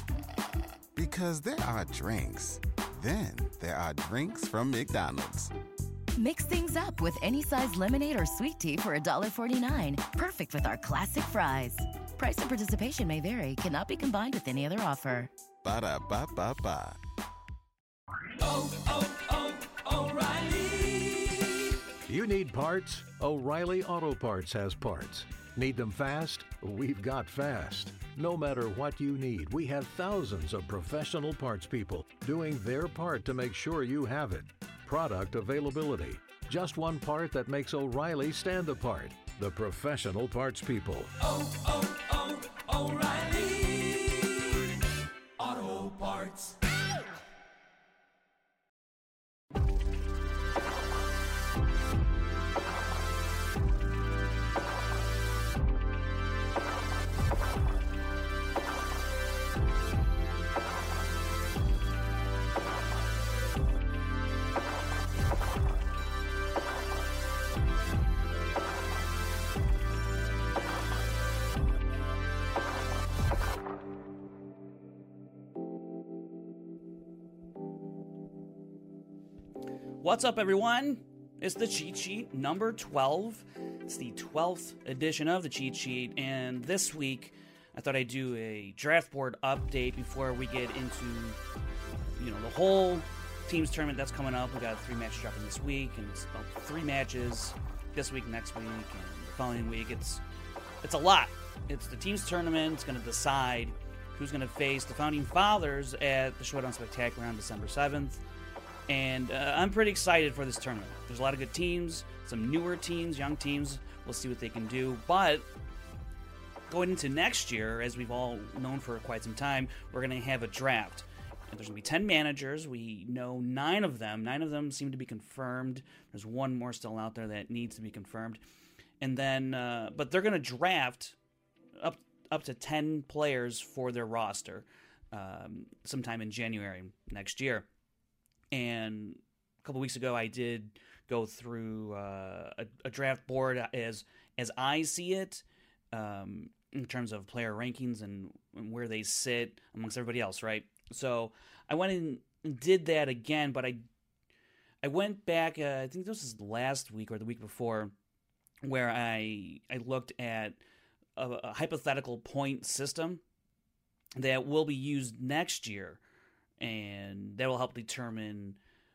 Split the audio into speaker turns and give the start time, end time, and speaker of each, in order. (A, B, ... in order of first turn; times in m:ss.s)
0:01.0-0:05.5 A
0:06.2-0:15.3 B
0:15.6-0:17.0 A
0:18.4-0:21.8 C
0:22.1-0:41.2 D
0:41.2-0:44.6 C
0:45.4-0:46.6 C
1:20.0-1:31.4 E
1:31.9-1:40.2 E
1:40.8-1:48.2 E
1:48.9-1:55.5 E
1:56.7-2:08.4 E
2:09.0-2:11.2 E
2:11.8-2:17.7 E
2:18.5-2:33.8 E
2:34.8-2:37.9 E
2:38.6-2:40.6 E
2:41.2-2:43.2 E
2:44.2-2:46.0 E
2:46.6-2:48.6 E